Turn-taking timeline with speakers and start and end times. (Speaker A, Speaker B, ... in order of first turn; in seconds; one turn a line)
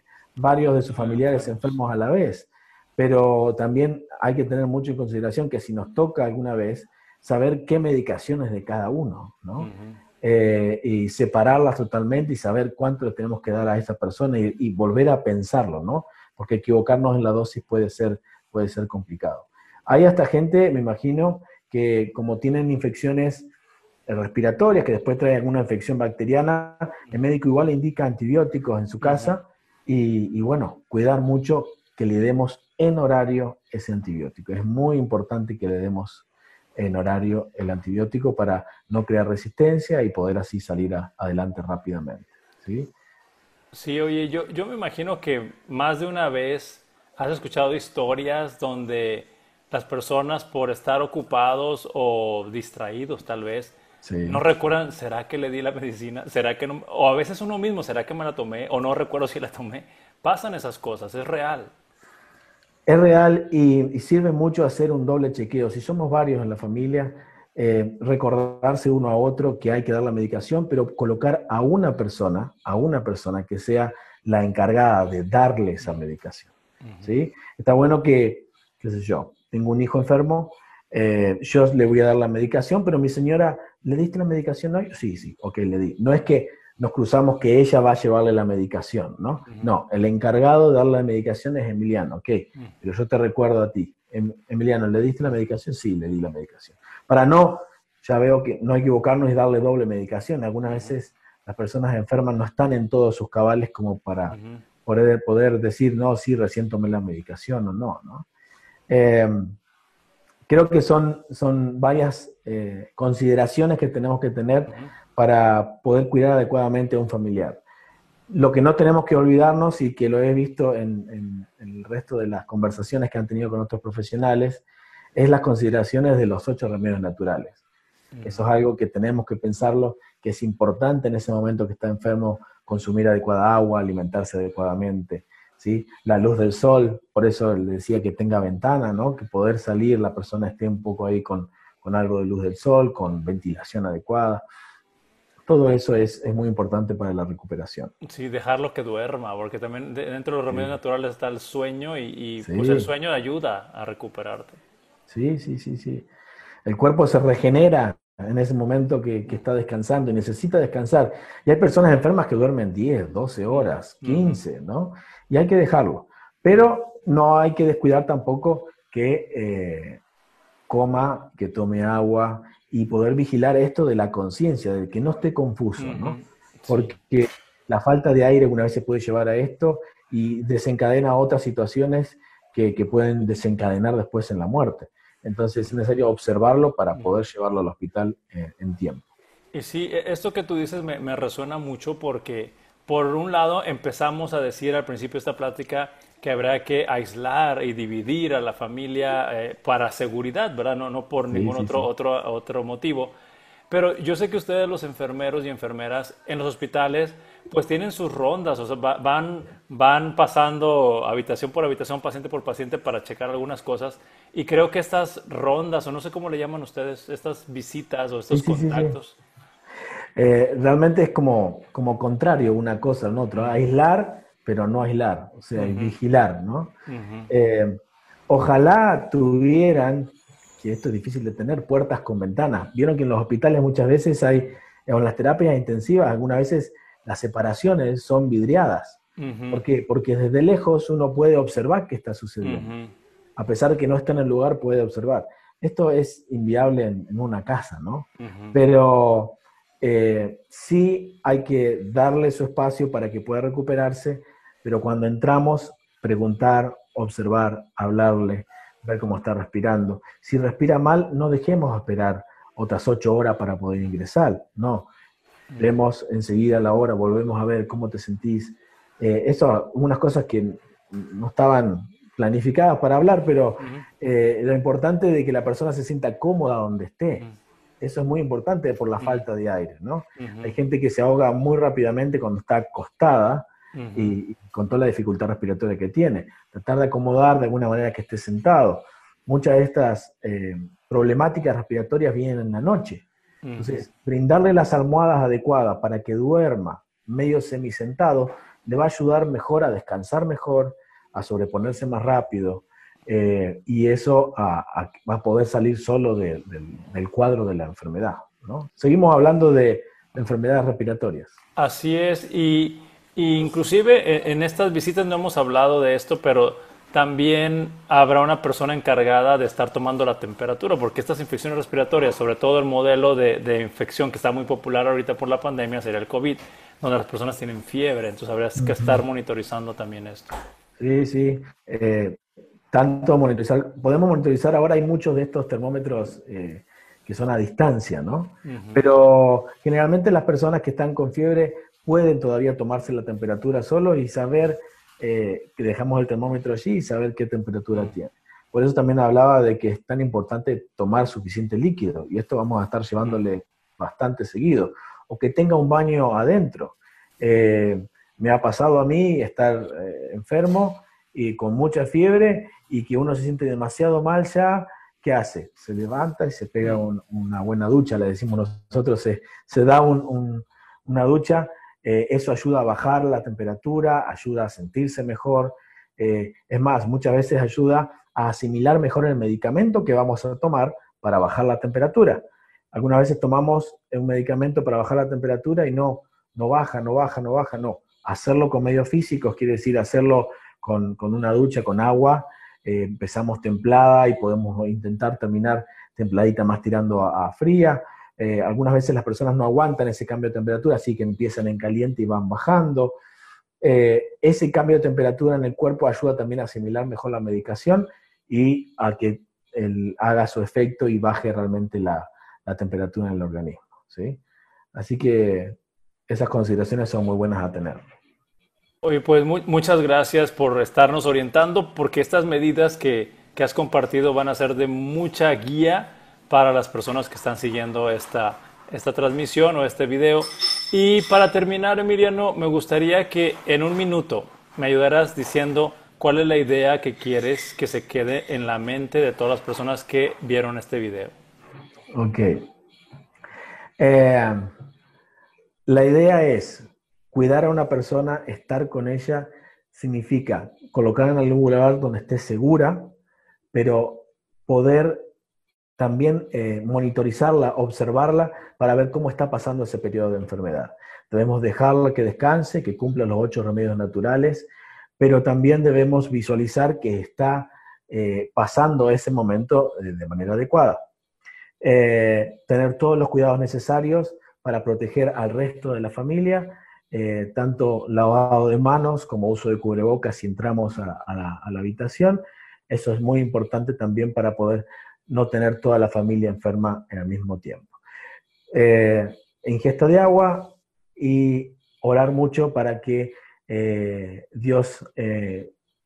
Speaker A: 0.3-9.7
Speaker B: 0.9-1.8
Speaker B: 9.6-10.0
Speaker A: 10.2-23.5
Speaker A: 24.1-42.9
Speaker B: 29.0-29.4
Speaker B: 43.7-61.7
Speaker A: 54.0-54.4
Speaker A: 62.9-108.2
Speaker B: 76.8-77.1
Speaker B: 100.7-100.9
Speaker B: 104.3-104.6
Speaker A: 108.9-109.5
Speaker A: 110.5-117.6
Speaker A: 118.3-124.6
Speaker A: 125.1-127.6
Speaker B: 128.1-128.4
Speaker A: 128.2-144.4
Speaker A: 145.4-147.9
Speaker B: 148.0-154.6
Speaker A: 152.4-152.9
Speaker A: 155.1-156.1
Speaker A: 156.6-170.0
Speaker B: 163.5-164.4
Speaker A: 170.7-189.1
Speaker B: 175.8-177.0
Speaker B: 189.5-203.1
Speaker A: 201.3-201.8
Speaker B: 203.7-219.2
Speaker A: 218.3-219.0
Speaker A: 220.2-226.7
Speaker B: 225.6-226.0
Speaker B: 226.9-227.3
Speaker A: 227.3-239.0
Speaker B: 239.2-239.6
Speaker A: 239.5-242.7
Speaker B: 242.4-242.9
Speaker A: 243.4-264.9
Speaker B: 248.2-248.6
Speaker A: 265.6-277.2
Speaker B: 273.6-273.9
Speaker A: 277.8-293.1
Speaker B: 279.0-279.2
Speaker B: 280.2-280.6
Speaker B: 283.7-284.2
Speaker B: 293.4-293.8
Speaker A: 293.6-311.3
Speaker B: 311.6-330.3
Speaker A: 328.6-329.0
Speaker A: 330.8-332.2
Speaker A: 332.7-403.0
Speaker B: 338.4-338.8
Speaker A: 403.6-414.2
Speaker A: 414.7-415.6
Speaker A: 416.1-417.8
Speaker B: 418.8-441.2
Speaker A: 441.9-442.4
Speaker A: 443.8-444.5
Speaker A: 445.6-452.9
Speaker A: 453.5-455.0
Speaker A: 455.8-470.8
Speaker A: 471.6-487.8
Speaker A: 488.5-495.5